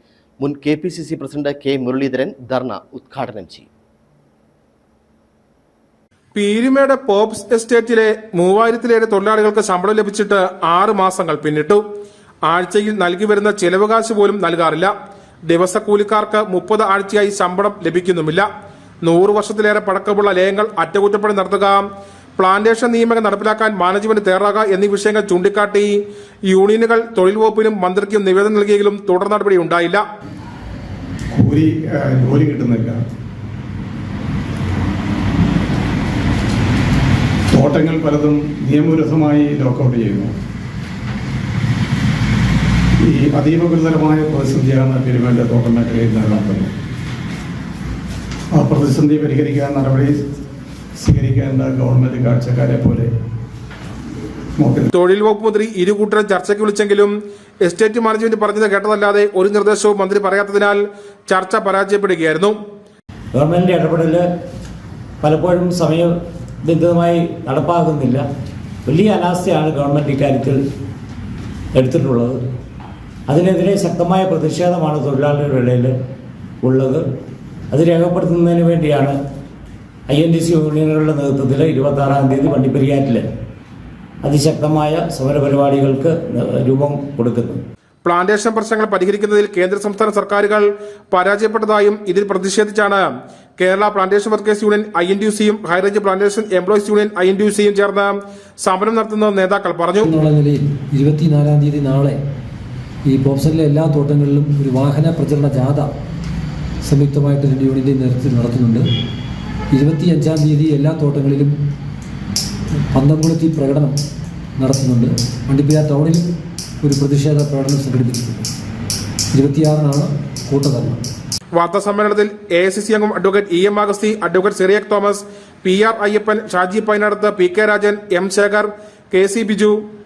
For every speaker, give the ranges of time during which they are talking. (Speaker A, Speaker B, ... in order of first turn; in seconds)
Speaker A: 0.4-3.7
Speaker B: 6.3-11.8, 12.4-14.9, 15.5-18.4, 19.0-21.8, 22.4-25.9, 26.5-30.0, 54.9-62.6, 88.0-93.0, 93.6-100.0, 121.5-129.8
Speaker C: 31.3-33.0, 37.5-40.3, 43.0-46.7, 48.5-50.1, 51.0-53.1, 54.6-54.9
Speaker D: 63.3-64.2, 65.2-68.2, 68.8-70.6, 71.7-72.4, 73.3-76.0, 76.6-77.0, 77.7-79.2, 80.1-83.3, 84.2-87.6
Speaker E: 100.0-102.2, 103.1-105.9, 106.8-108.8, 109.7-111.5, 112.9-114.0, 114.6-116.3, 116.8-118.5, 119.3-121.0